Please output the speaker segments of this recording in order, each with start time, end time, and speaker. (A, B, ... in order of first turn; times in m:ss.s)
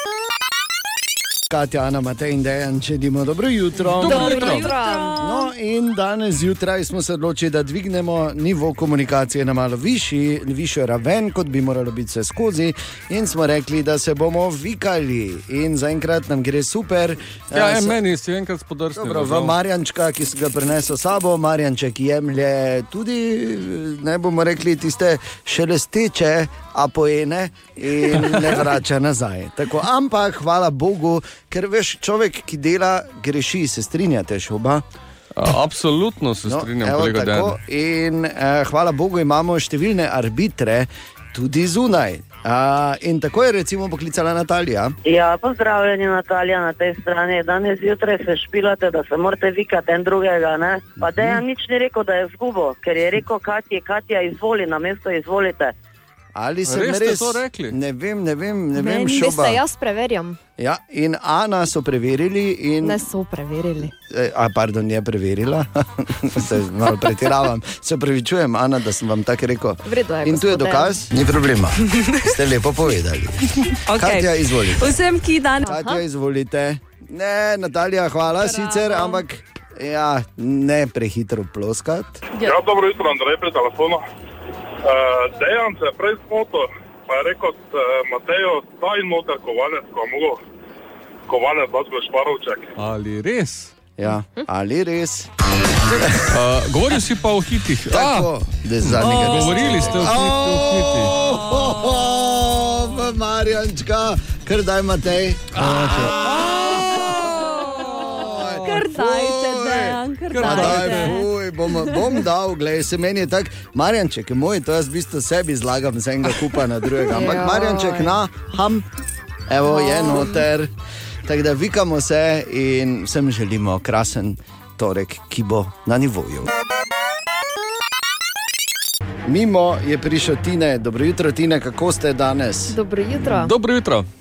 0:01.5-0:04.5 A
0:03.9-0:05.5 B
0:04.0-0:04.7 C
0:04.0-0:05.2 D
0:05.2-0:18.0 A
0:17.5-0:19.6 C
0:19.0-0:34.8 A
0:28.2-0:28.5 C
0:35.3-0:37.6 C
0:36.4-0:44.9 A
0:45.0-0:55.7 E
0:56.3-0:59.6 A
0:56.6-0:57.8 C
0:58.8-1:00.4 D
1:00.6-1:03.0 A
1:02.8-1:03.9 D
1:04.1-1:14.9 A
1:09.8-1:11.0 D
1:11.9-1:12.2 B
1:13.9-1:15.7 B
1:15.6-1:22.2 A
1:15.6-1:16.0 D
1:18.4-1:19.2 B
1:22.4-1:24.0 F
1:24.8-1:30.4 F
1:31.3-1:32.7 F
1:32.8-1:33.7 C
1:34.0-1:35.3 A
1:35.9-1:36.3 A
1:36.2-1:38.3 C
1:37.9-1:58.8 A
1:38.8-1:41.7 C
1:39.1-1:39.6 B
1:45.6-1:48.8 C
1:46.8-1:52.2 B
1:50.3-1:51.2 C
1:57.1-1:58.2 D
1:59.5-2:00.7 A
1:59.8-2:00.2 B
2:01.2-2:06.5 A
2:09.2-2:12.8 A
2:12.7-2:13.5 D
2:13.3-2:14.1 C